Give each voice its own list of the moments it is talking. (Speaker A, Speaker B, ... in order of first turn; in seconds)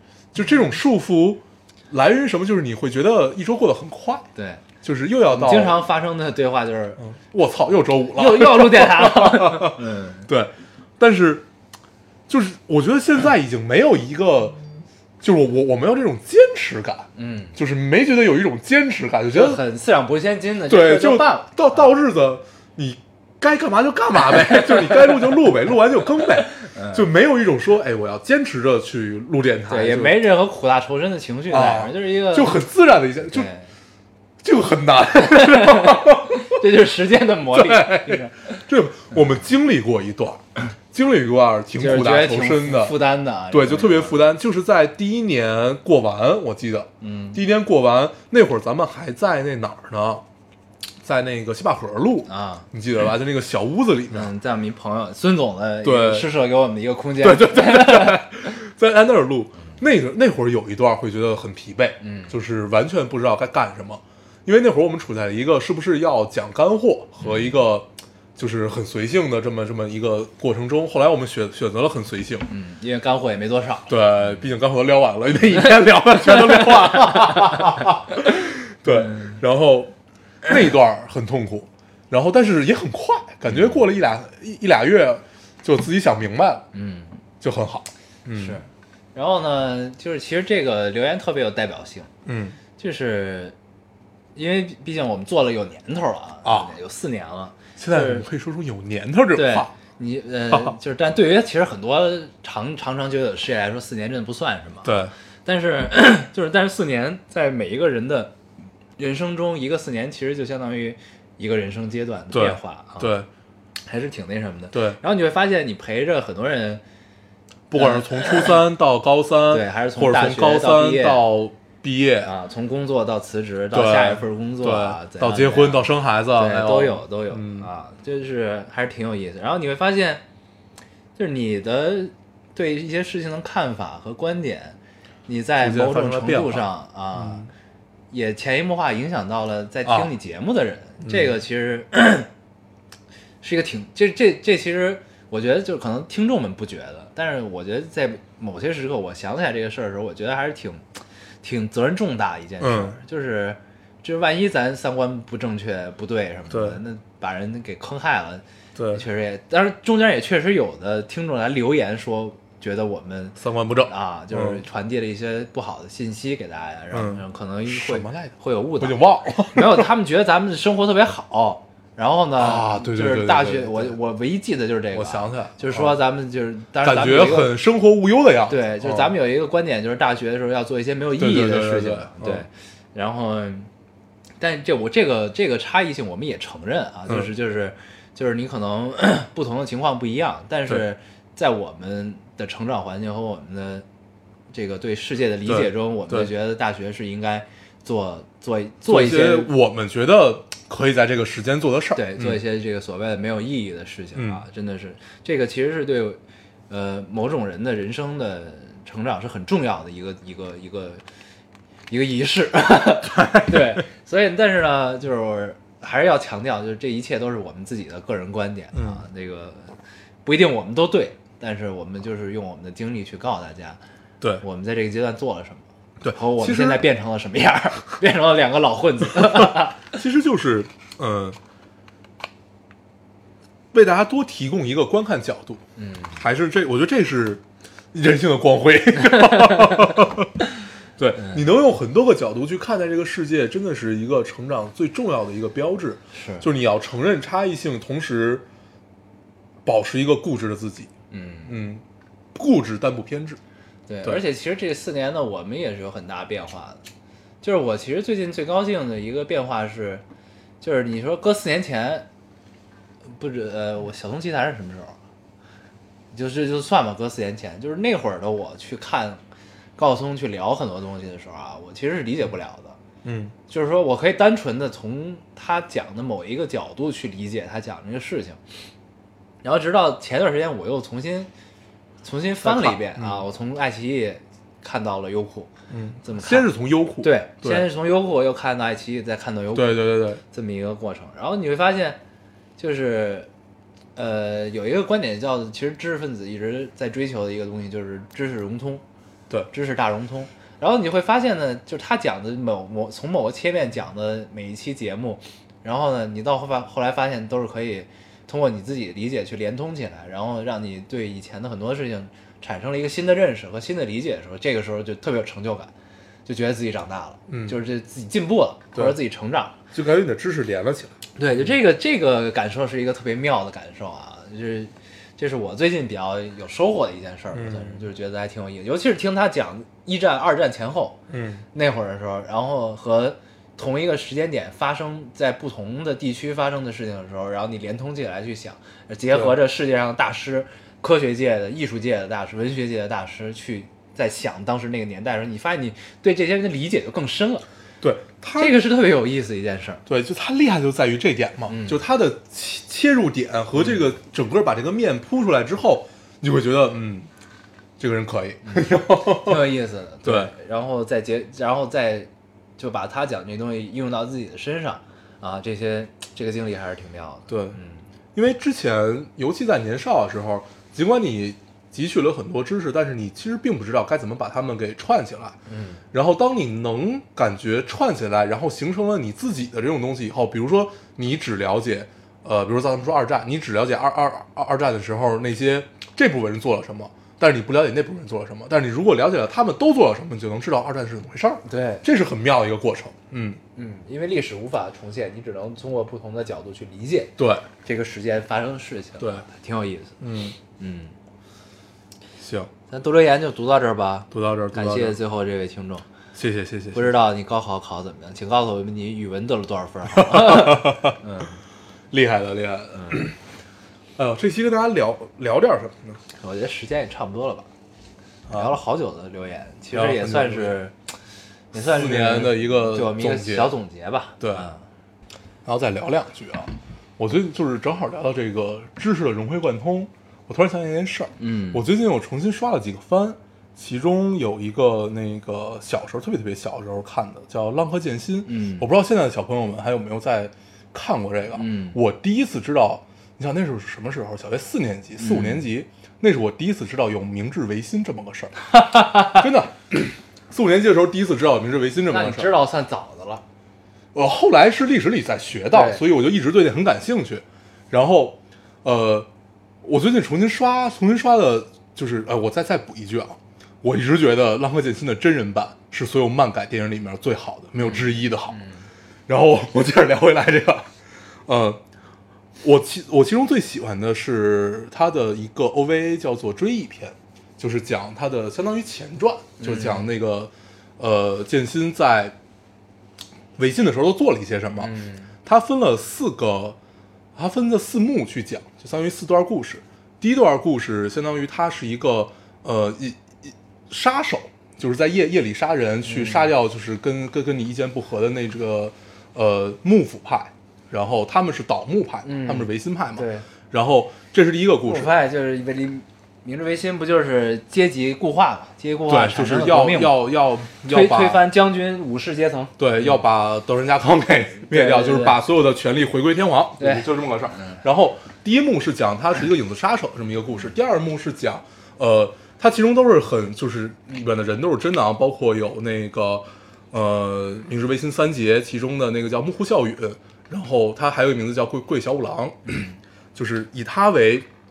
Speaker A: 0.3-4.3, 4.8-5.8, 7.0-11.4, 12.3-14.6, 15.2-19.6, 20.7-30.2, 31.5-33.5, 34.4-36.5, 37.5-43.0, 43.5-50.2, 51.0-54.3, 55.8-56.3, 57.2-72.5, 73.9-86.7, 87.4-88.6, 92.2-92.6, 96.4-96.7, 97.8-99.7, 100.5-100.7, 104.8-105.1, 112.3-113.3, 114.7-115.0, 117.7-122.3, 123.7-127.7, 135.6-137.5, 139.8-140.1, 141.0-141.3, 152.6-153.0, 156.5-156.8, 158.8-159.0, 163.4-164.6, 166.9-169.9, 172.4-174.0, 174.9-176.0, 176.8-179.1, 181.2-182.4, 195.4-196.3, 198.8-202.4, 204.1-204.4, 213.1-213.8, 218.7-219.0, 226.0-226.8, 229.1-231.4, 233.7-235.6, 236.1-240.3, 241.0-248.4, 249.6-250.9, 251.4-251.8, 252.3-253.4, 273.0-273.3, 282.4-283.2, 285.7-287.7, 289.5-290.2, 317.3-317.6, 319.7-320.9, 327.3-327.8, 331.1-331.4, 347.8-348.6, 349.9-357.1, 357.8-359.4, 360.0-360.3, 367.3-367.6, 368.1-375.4, 375.9-393.4, 397.2-397.5, 400.0-400.4, 402.2-402.5, 404.1-405.0, 406.1-406.9, 409.9-411.0, 411.9-413.1, 414.0-416.0, 418.3-418.6, 419.7-420.6, 421.5-423.5, 424.2-424.5, 425.4-452.3, 453.9-459.1, 459.6-468.4, 469.1-470.7, 471.3-471.6, 472.4-482.1, 483.4-484.7, 485.2-486.6, 487.1-504.9, 508.9-511.2, 512.6-534.3
Speaker B: 4.3-4.6, 5.3-7.0, 8.1-10.3, 17.1-17.6, 19.3-21.9, 24.5-25.0, 26.7-27.1, 29.7-32.6, 33.3-33.7, 35.3-38.6, 41.8-44.2, 47.0-47.4, 52.3-52.7, 54.1-58.3, 62.0-62.3, 67.2-67.5, 72.5-74.0, 76.2-77.7, 78.9-79.4, 83.5-83.8, 86.7-87.2, 88.3-92.1, 92.8-93.5, 94.3-98.3, 99.3-108.3, 109.0-113.2, 113.8-116.8, 117.8-118.6, 119.5-121.3, 122.2-130.2, 131.2-137.5, 138.1-142.3, 143.4-150.8, 151.4-177.5, 178.5-183.7, 184.4-193.8, 194.5-199.5, 201.9-211.0, 211.9-223.8, 224.4-230.0, 235.8-236.2, 239.1-239.8, 246.1-246.5, 251.1-251.6, 253.9-256.8, 257.4-260.0, 260.6-262.1, 263.1-265.0, 266.1-269.2, 269.8-272.8, 273.5-278.4, 279.4-281.3, 282.0-285.5, 286.0-286.5, 287.0-292.0, 292.6-293.3, 293.9-298.8, 299.5-315.7, 316.2-319.6, 321.2-331.0, 331.5-347.4, 348.4-349.8, 351.5-351.8, 353.5-353.8, 358.4-367.8, 375.5-375.8, 391.4-391.8, 393.5-400.0, 400.6-400.9, 402.7-405.9, 406.7-411.4, 412.7-413.0, 416.2-417.5, 418.3-420.7, 421.5-424.6, 431.2-431.6, 438.2-438.6, 441.4-441.8, 445.0-445.5, 448.5-449.2, 451.9-453.2, 455.5-455.8, 467.6-468.7, 479.4-479.9, 484.6-485.1, 495.8-496.3, 502.0-503.3, 504.6-510.0, 510.7-513.0, 514.5-515.2, 516.6-517.6